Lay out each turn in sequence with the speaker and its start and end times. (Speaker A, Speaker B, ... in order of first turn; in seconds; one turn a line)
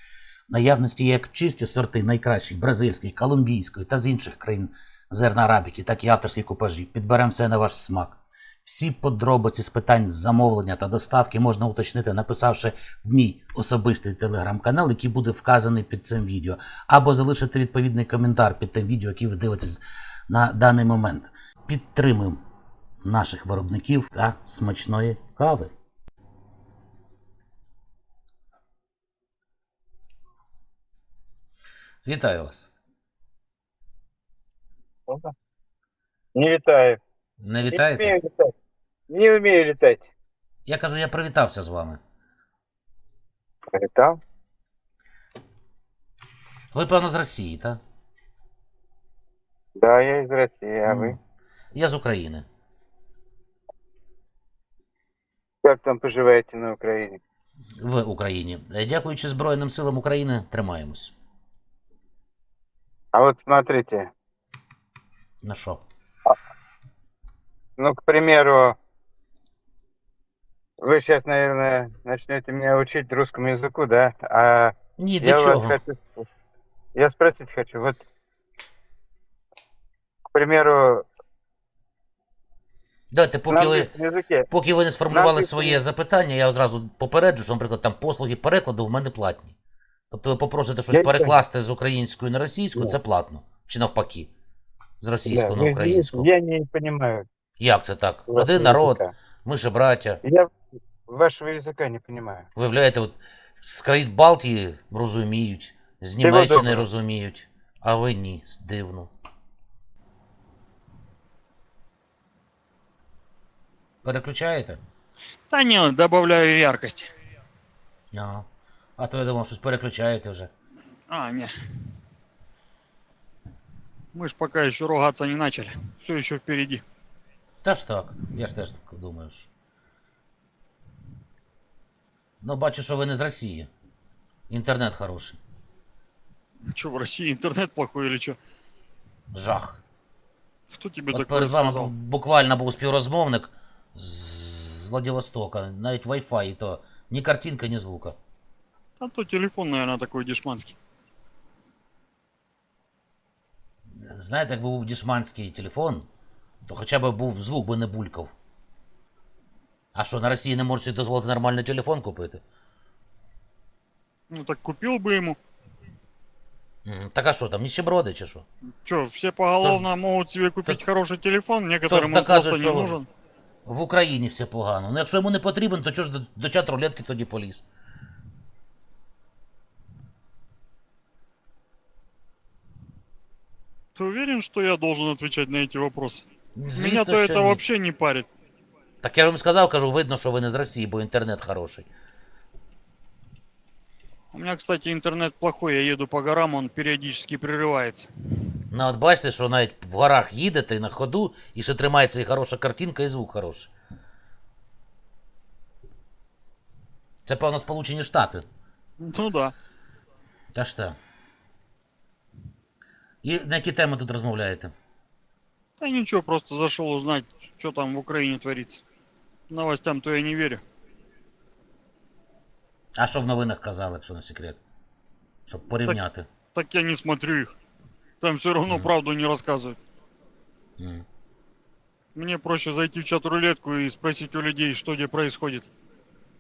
Speaker A: 0.5-22.4
Speaker A: 23.0-25.7
Speaker A: 32.0-32.7
Speaker B: 36.3-37.0
Speaker A: 37.4-38.1
Speaker B: 37.7-38.5
Speaker B: 39.1-40.0
Speaker A: 40.7-42.0
Speaker B: 43.7-44.2
Speaker A: 46.7-47.8
Speaker B: 49.8-51.2
Speaker A: 50.8-51.1
Speaker A: 51.7-52.5
Speaker B: 55.6-57.2
Speaker A: 57.8-61.1
Speaker B: 63.1-64.1
Speaker A: 65.4-65.8
Speaker B: 67.8-68.8
Speaker B: 70.8-76.2
Speaker A: 75.0-75.8
Speaker B: 76.9-78.0
Speaker B: 80.3-81.0
Speaker A: 83.1-83.9
Speaker B: 83.5-84.5
Speaker A: 84.5-89.5
Speaker B: 85.1-85.8
Speaker A: 90.1-94.3
Speaker B: 90.9-91.4
Speaker A: 95.0-96.3
Speaker B: 95.3-97.2
Speaker A: 97.6-100.2
Speaker B: 98.3-99.1
Speaker B: 100.2-100.5
Speaker B: 101.1-102.5
Speaker A: 102.5-109.1
Speaker B: 106.2-106.8
Speaker A: 114.0-114.8
Speaker C: 115.5-117.1
Speaker A: 118.1-118.5
Speaker A: 119.0-120.5
Speaker C: 121.1-121.5
Speaker C: 124.1-126.8
Speaker A: 127.6-129.5
Speaker A: 132.4-133.7
Speaker A: 134.5-135.4
Speaker C: 136.7-138.4
Speaker A: 139.3-139.8
Speaker C: 140.7-141.9
Speaker A: 141.1-148.2
Speaker C: 149.0-150.8
Speaker A: 153.9-156.1
Speaker A: 156.7-158.3
Speaker A: 159.9-162.4
Speaker C: 164.3-165.4
Speaker A: 166.8-168.4
Speaker C: 168.8-173.1
Speaker A: 169.6-169.9
Speaker A: 171.9-172.9
Speaker A: 173.7-177.6
Speaker C: 183.9-188.3
Speaker A: 186.6-187.6
Speaker A: 189.0-191.9
Speaker C: 194.3-198.1
Speaker A: 198.7-203.7
Speaker A: 207.2-208.4
Speaker C: 209.0-209.5
Speaker A: 210.5-211.0
Speaker A: 213.2-214.7
Speaker C: 215.8-218.8
Speaker C: 219.5-220.6
Speaker A: 222.9-224.6
Speaker A: 225.5-226.3
Speaker C: 226.5-227.5
Speaker C: 228.2-229.8
Speaker A: 230.8-231.0
Speaker C: 232.1-235.7